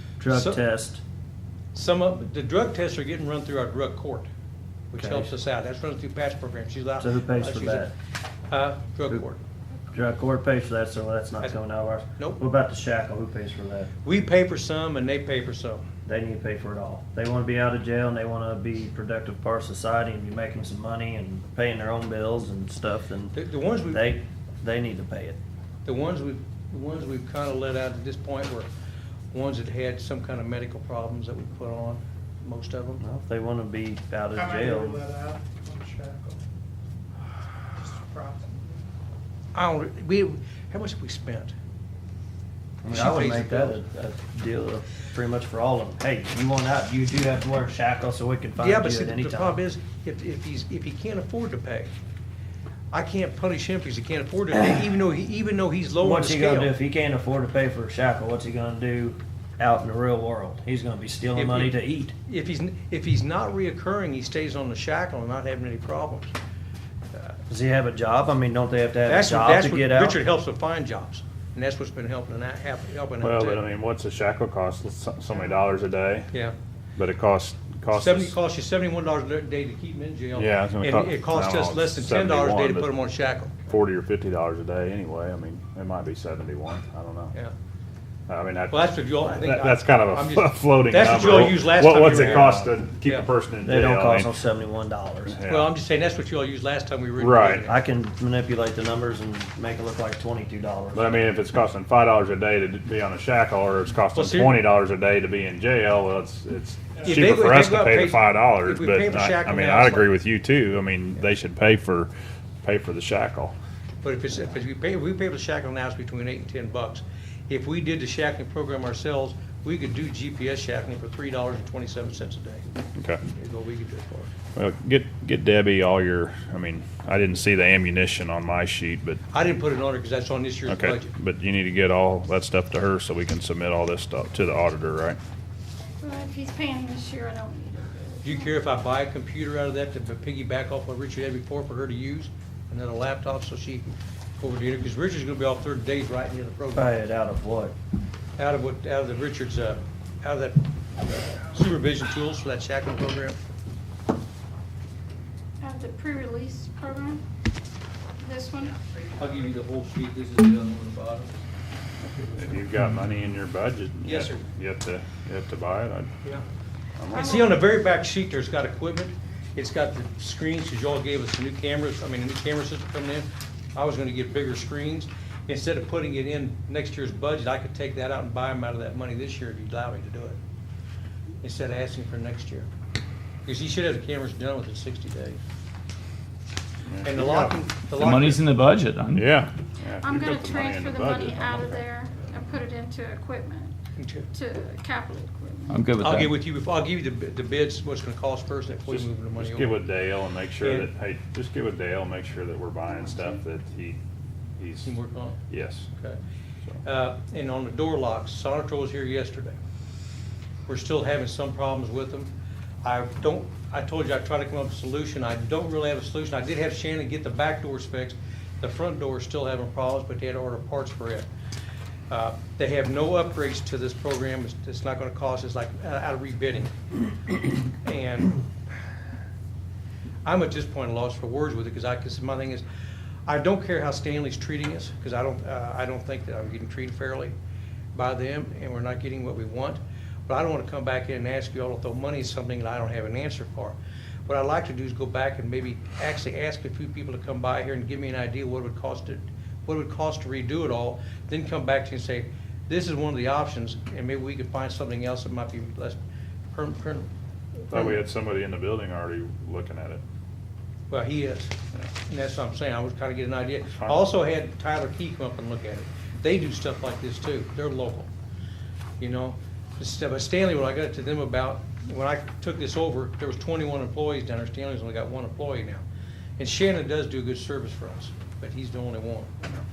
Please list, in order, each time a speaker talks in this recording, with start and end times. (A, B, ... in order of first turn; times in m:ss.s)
0:00.2-0:01.0 A
0:00.3-0:00.6 B
0:01.7-0:04.3 B
0:04.9-0:07.9 B
0:05.0-0:05.3 A
0:07.0-0:07.9 A
0:08.5-0:09.4 B
0:09.9-0:13.9 A
0:14.0-0:15.8 B
0:16.0-0:23.4 A
0:23.3-0:24.2 B
0:23.9-0:25.4 A
0:25.8-0:28.7 B
0:29.3-0:33.0 B
0:33.0-0:35.0 A
0:34.4-0:36.4 C
0:37.8-0:38.6 C
0:39.6-0:41.5 B
0:42.8-0:49.6 A
0:42.9-0:43.8 B
0:48.6-0:51.9 B
0:52.9-0:56.8 B
0:56.0-1:02.1 A
1:01.4-1:06.3 B
1:07.5-1:10.2 A
1:09.1-1:13.6 B
1:13.2-1:16.3 D
1:17.0-1:18.4 D
1:17.9-1:23.6 B
1:20.4-1:23.0 D
1:23.7-1:27.3 D
1:28.3-1:34.4 D
1:28.7-1:33.3 B
1:33.6-1:35.4 A
1:35.3-1:35.7 D
1:35.5-1:37.9 B
1:37.2-1:37.7 D
1:37.7-1:41.2 A
1:40.9-1:52.1 D
1:44.1-1:44.6 B
1:47.0-1:50.1 B
1:52.6-1:53.6 D
1:54.0-2:02.6 B
2:03.0-2:03.2 D
2:03.3-2:04.3 B
2:04.6-2:09.2 D
2:09.3-2:11.1 B
2:10.7-2:15.2 D
2:16.0-2:18.6 E
2:18.2-2:26.9 B
2:26.7-2:27.8 A
2:28.4-2:33.4 B
2:35.6-2:37.2 E
2:38.2-2:38.8 E
2:39.2-2:41.3 B
2:42.3-2:46.1 D
2:44.0-2:44.4 B
2:47.0-2:47.5 D
2:47.2-2:47.5 E
2:47.2-3:00.4 B
3:01.4-3:02.7 B
3:03.5-3:05.4 B
3:06.9-3:07.6 D
3:07.0-3:08.4 B
3:08.0-3:09.4 F
3:09.2-3:11.8 D
3:10.0-3:13.8 E
3:14.0-3:14.3 B
3:14.3-3:15.8 E
3:15.7-3:16.4 F
3:16.0-3:19.9 B
3:18.9-3:24.0 D
3:20.6-3:20.9 B
3:24.6-3:24.9 D
3:24.8-3:25.4 B
3:25.5-3:25.9 D
3:26.8-3:29.6 B
3:30.7-3:32.3 B
3:32.8-3:41.3 B
3:42.1-3:46.7 B
3:47.3-3:48.4 B
3:50.2-3:52.6 B
3:53.3-3:57.3 B
3:57.9-4:03.8 B
4:04.3-4:16.0 B
4:16.5-4:17.1 B
4:17.7-4:18.0 B
4:17.7-4:20.0 D
4:20.9-4:21.6 B
4:22.1-4:28.1 B
4:29.0-4:35.8 B
4:36.4-4:39.3 B